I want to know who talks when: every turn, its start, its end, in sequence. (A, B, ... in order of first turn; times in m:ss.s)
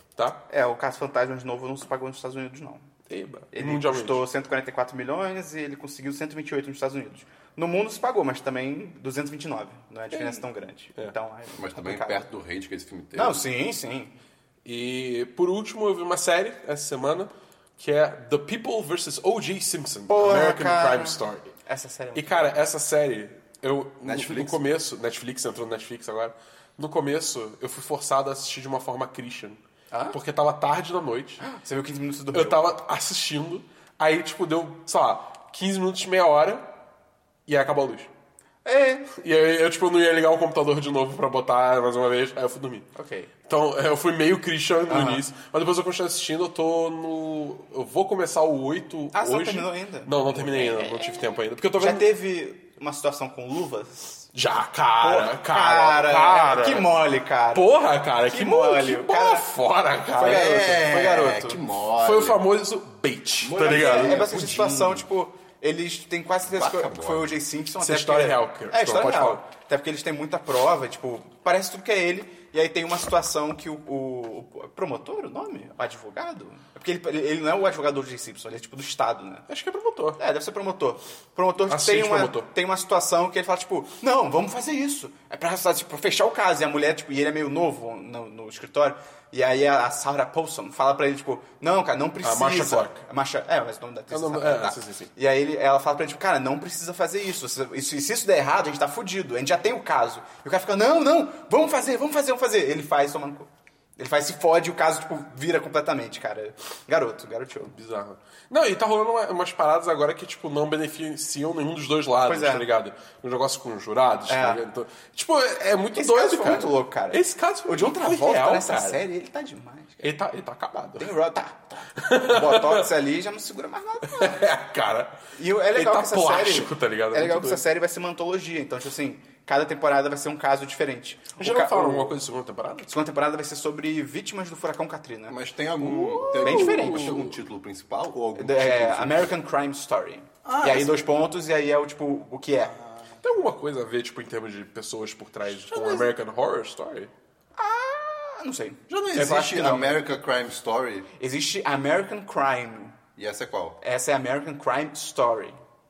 0:00.2-0:00.4 A
0:00.5-0:02.9 B
0:03.1-0:04.2 A
0:03.5-0:12.3 B
0:10.1-0:10.4 A
0:11.6-0:13.4 C
0:13.1-0:14.1 B
0:14.6-0:21.5 A
0:20.1-0:22.5 B
0:22.1-0:29.6 A
0:24.0-0:24.6 C
0:29.9-0:30.2 B
0:30.1-0:31.4 A
0:31.4-0:32.6 B
0:32.3-0:36.7 A
0:37.5-0:38.1 A
0:38.6-0:39.1 B
0:39.1-0:52.1 A
0:43.0-0:43.3 B
0:44.9-0:45.2 B
0:49.1-0:54.3 B
0:54.3-0:56.9 A
0:55.0-0:59.5 B
0:57.5-1:00.7 A
1:00.2-1:01.6 B
1:00.2-1:02.4 C
1:02.0-1:04.4 A
1:03.4-1:05.0 C
1:03.5-1:19.5 B
1:06.4-1:07.3 C
1:07.8-1:09.4 A
1:19.5-1:20.2 A
1:20.2-1:47.7 B
1:21.7-1:22.5 A
1:32.2-1:33.0 A
1:34.1-1:35.1 A
1:47.7-1:59.0 A
1:52.2-1:52.7 B
1:54.3-1:54.6 B
1:55.9-2:00.1 B
2:00.0-2:01.1 A
2:01.0-2:04.4 B
2:02.0-2:02.9 A
2:04.0-2:05.2 A
2:05.3-2:12.1 B
2:05.7-2:07.6 A
2:11.4-2:13.0 A
2:12.9-2:15.4 B
2:15.3-2:19.3 C
2:15.8-2:17.3 A
2:16.3-2:17.2 B
2:18.4-2:22.8 B
2:20.4-2:21.0 C
2:22.8-2:23.1 C
2:23.2-2:27.1 A
2:25.7-2:26.1 C
2:27.6-2:29.9 B
2:28.9-2:31.1 C
2:29.2-2:29.8 A
2:31.2-2:33.0 B
2:33.2-2:33.8 C
2:33.8-2:35.6 B